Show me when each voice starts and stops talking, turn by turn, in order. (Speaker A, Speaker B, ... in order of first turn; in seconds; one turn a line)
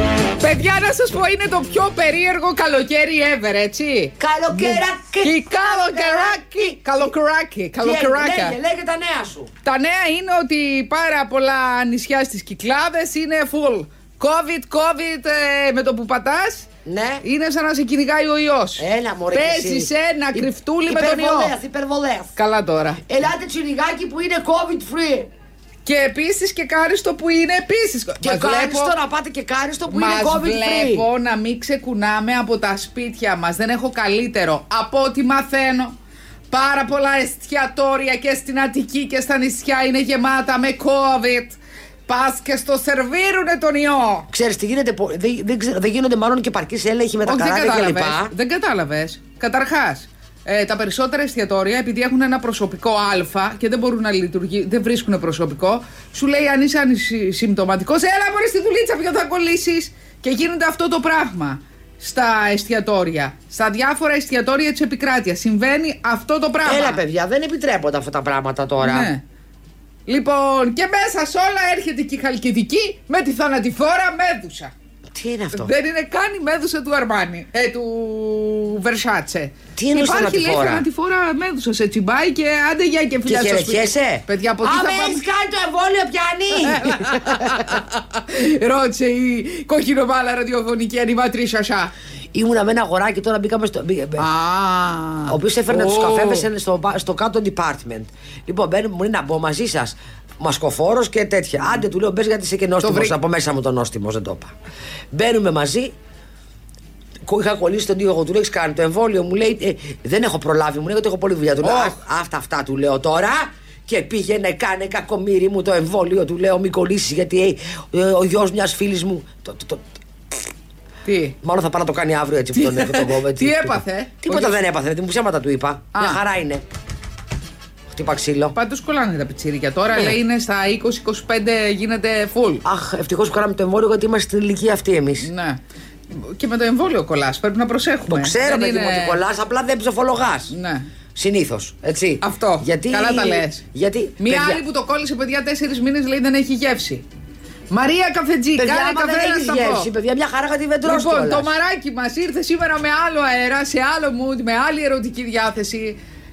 Speaker A: 0.4-8.6
Speaker B: 4.2-6.8
Speaker B: 7.8-9.5
Speaker A: 9.6-16.7
Speaker B: 16.8-17.2
Speaker A: 17.2-21.5
Speaker B: 18.8-22.4
Speaker A: 22.4-23.0
Speaker B: 23.1-25.3
Speaker A: 25.8-28.9
Speaker B: 28.2-31.1
Speaker A: 29.9-35.9
Speaker A: 36.5-44.3
Speaker B: 44.3-48.3
Speaker A: 47.2-67.0
Speaker B: 66.6-69.1
Speaker A: 68.8-69.2
Speaker A: 70.1-74.7
Speaker B: 75.1-75.7
Speaker A: 75.5-85.2
Speaker B: 79.8-80.8
Speaker B: 83.2-87.8
Speaker A: 86.6-91.9
Speaker B: 92.3-94.2
Speaker A: 94.2-96.5
Speaker B: 95.3-104.5
Speaker A: 102.8-103.1
Speaker B: 105.1-105.9
Speaker B: 107.2-120.4
Speaker A: 111.6-111.9
Speaker A: 121.0-121.3
Speaker B: 121.4-126.6
Speaker A: 122.5-124.6
Speaker A: 125.9-126.2
Speaker B: 127.9-128.6
Speaker A: 128.5-132.6
Speaker B: 132.6-135.3
Speaker A: 135.2-135.6
Speaker A: 136.1-139.2
Speaker B: 138.1-140.5
Speaker A: 140.5-140.9
Speaker B: 141.1-144.6
Speaker A: 142.2-143.6
Speaker A: 144.2-147.0
Speaker A: 147.7-149.9
Speaker B: 148.6-151.5
Speaker A: 150.8-156.0